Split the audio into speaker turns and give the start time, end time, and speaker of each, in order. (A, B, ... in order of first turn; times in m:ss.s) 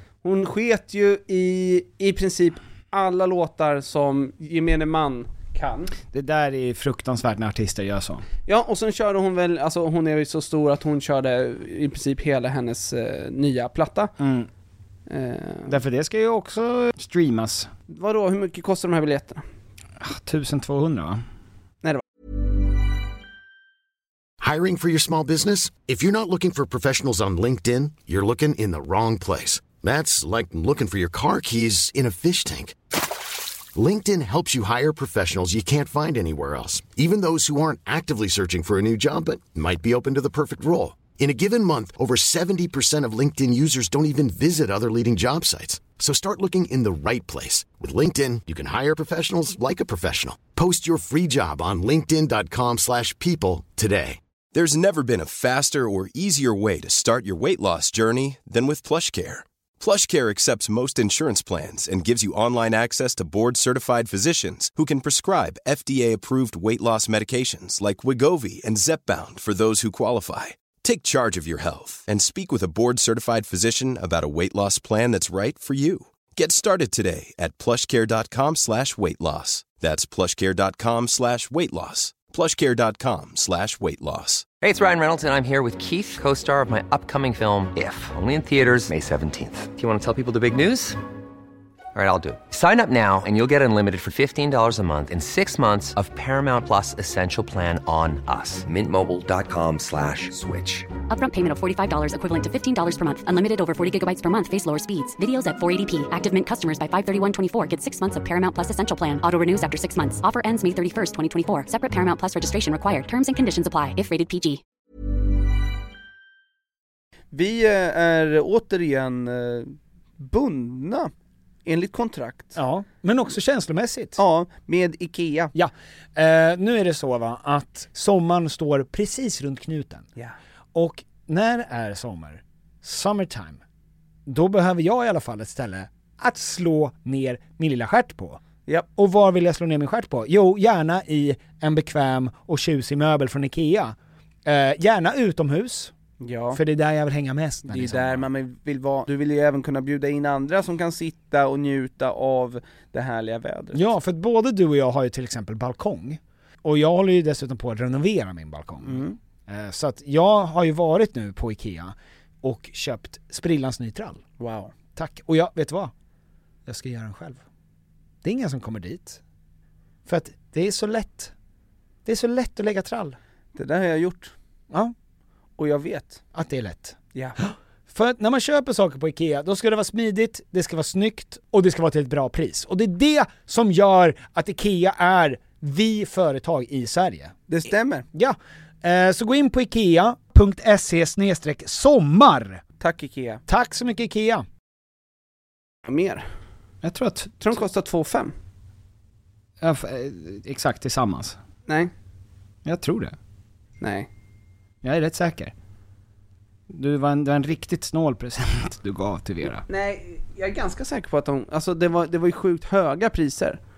0:00.2-0:05.9 A
0:06.1-0:08.2 B
0:08.4-0:14.1 A
0:14.2-0:14.5 B
0:15.1-0:15.8 A
0:15.7-0:17.7 B
0:17.9-0:19.4 A
0:20.0-0:21.2 B
0:24.4-0:32.8 C
0:33.7-0:54.2 C
0:54.5-1:24.5 D
1:24.6-1:31.0 E
1:31.9-1:40.9 E
1:41.1-1:54.6 F
1:57.3-2:01.1 A
2:01.6-2:02.6 A
2:02.6-2:04.2 B
2:04.2-2:05.5 A
2:05.5-2:10.1 B
2:10.7-2:13.6 B
2:14.2-2:18.4 B
2:18.9-2:25.9 B
2:26.2-2:26.6 A
2:26.5-2:28.2 B
2:27.7-2:33.8 A
2:33.7-2:44.2 B
2:38.8-2:39.2 A
2:44.4-2:44.7 A
2:44.9-2:45.9 B
2:46.6-2:47.4 B
2:48.2-2:49.2 B
2:50.1-2:51.3 B
2:52.0-2:53.2 B
2:53.6-2:54.3 A
2:55.6-2:56.2 A
2:56.3-3:07.3 B
3:07.5-3:08.1 A
3:08.1-3:12.6 B
3:12.8-3:13.4 A
3:13.5-3:14.5 B
3:15.8-3:16.2 A
3:16.8-3:17.4 B
3:17.4-3:18.3 A
3:19.6-3:21.4 B
3:21.7-3:21.9 A
3:22.6-3:23.2 B
3:23.8-3:24.1 A
3:24.8-3:25.5 B
3:26.7-3:29.6 B
3:29.6-3:33.6 A